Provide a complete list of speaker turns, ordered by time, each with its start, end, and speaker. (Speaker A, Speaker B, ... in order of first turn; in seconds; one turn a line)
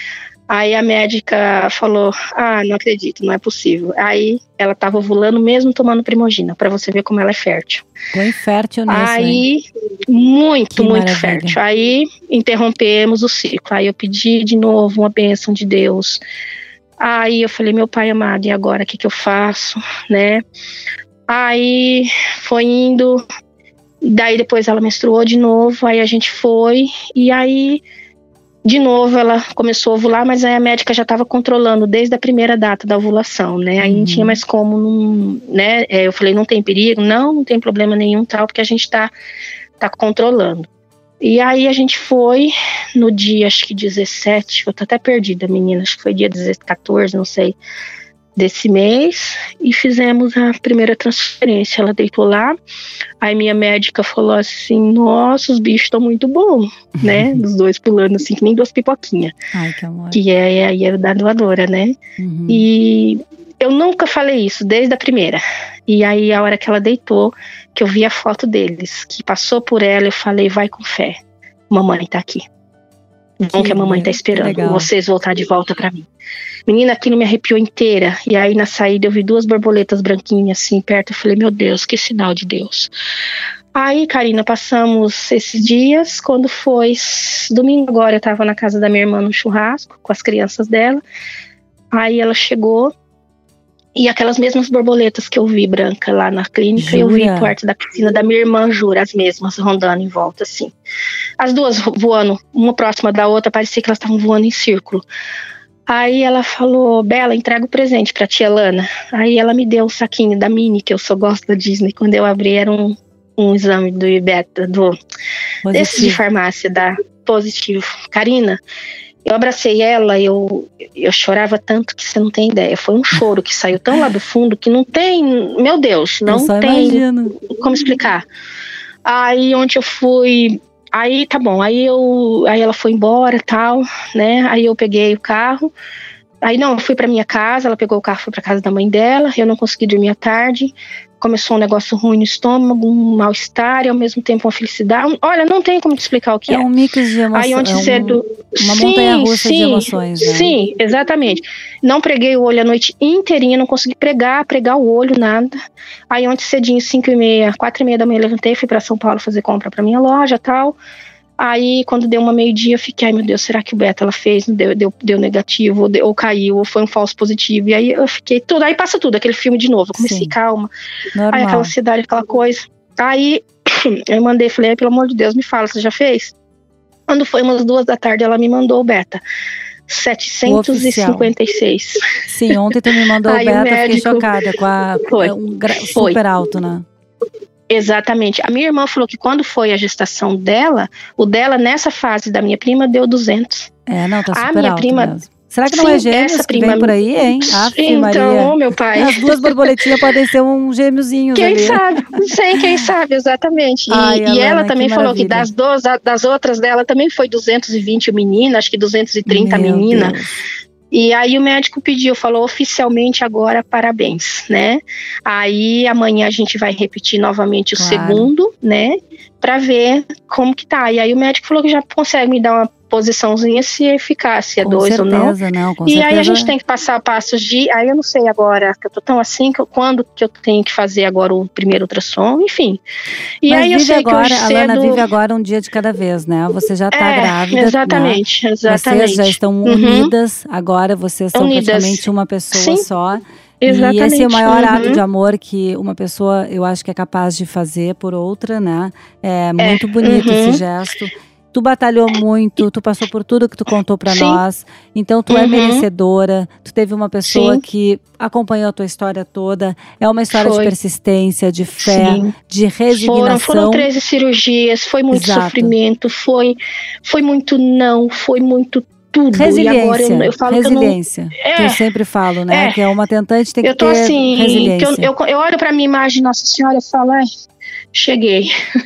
Speaker A: 0.5-7.8
Speaker B: 8.1-9.4
Speaker A: 8.9-16.2
Speaker B: 10.7-11.6
Speaker A: 17.0-20.4
Speaker A: 21.3-23.2
Speaker A: 24.0-27.8
Speaker A: 28.6-39.1
Speaker B: 33.8-34.4
Speaker A: 39.8-40.7
Speaker A: 41.2-47.6
Speaker A: 48.4-52.5
Speaker A: 53.2-59.3
Speaker B: 57.0-57.4
Speaker B: 59.5-60.2
Speaker A: 60.1-62.0
Speaker B: 62.2-62.7
Speaker A: 62.5-71.2
Speaker A: 71.7-72.4
Speaker A: 73.4-76.1
Speaker B: 73.5-74.9
Speaker A: 76.7-82.9
Speaker A: 83.8-91.0
Speaker A: 91.9-92.9
Speaker A: 94.0-100.7
Speaker B: 96.8-97.5
Speaker A: 101.4-105.0
Speaker A: 105.9-115.0
Speaker B: 115.7-116.2
Speaker A: 115.7-118.6
Speaker A: 119.2-128.2
Speaker B: 126.3-127.3
Speaker A: 129.1-135.7
Speaker A: 136.4-146.7
Speaker B: 146.5-150.5
Speaker A: 147.3-155.6
Speaker A: 156.1-160.8
Speaker A: 161.4-170.7
Speaker B: 170.0-170.3
Speaker B: 171.2-171.7
Speaker A: 171.3-176.3
Speaker A: 177.1-179.2
Speaker A: 179.9-182.1
Speaker B: 180.5-181.3
Speaker B: 182.3-186.8
Speaker A: 183.2-184.3
Speaker A: 185.0-186.2
Speaker A: 187.7-193.7
Speaker B: 193.9-202.2
Speaker A: 194.3-195.2
Speaker A: 195.7-199.7
Speaker A: 201.3-210.2
Speaker B: 203.9-205.5
Speaker B: 209.3-210.4
Speaker A: 210.9-232.8
Speaker B: 217.8-218.3
Speaker B: 224.6-226.5
Speaker A: 233.4-235.1
Speaker B: 233.5-263.9
Speaker A: 236.9-240.1
Speaker A: 241.3-242.8
Speaker A: 243.6-245.0
Speaker A: 249.6-250.6
Speaker A: 254.1-254.4
Speaker A: 255.3-255.9
Speaker A: 257.3-257.6
Speaker A: 260.3-260.7
Speaker A: 261.8-262.3
Speaker A: 262.9-271.8
Speaker B: 265.1-265.8
Speaker B: 269.3-275.1
Speaker A: 272.5-272.8
Speaker A: 273.6-277.2
Speaker A: 277.9-278.5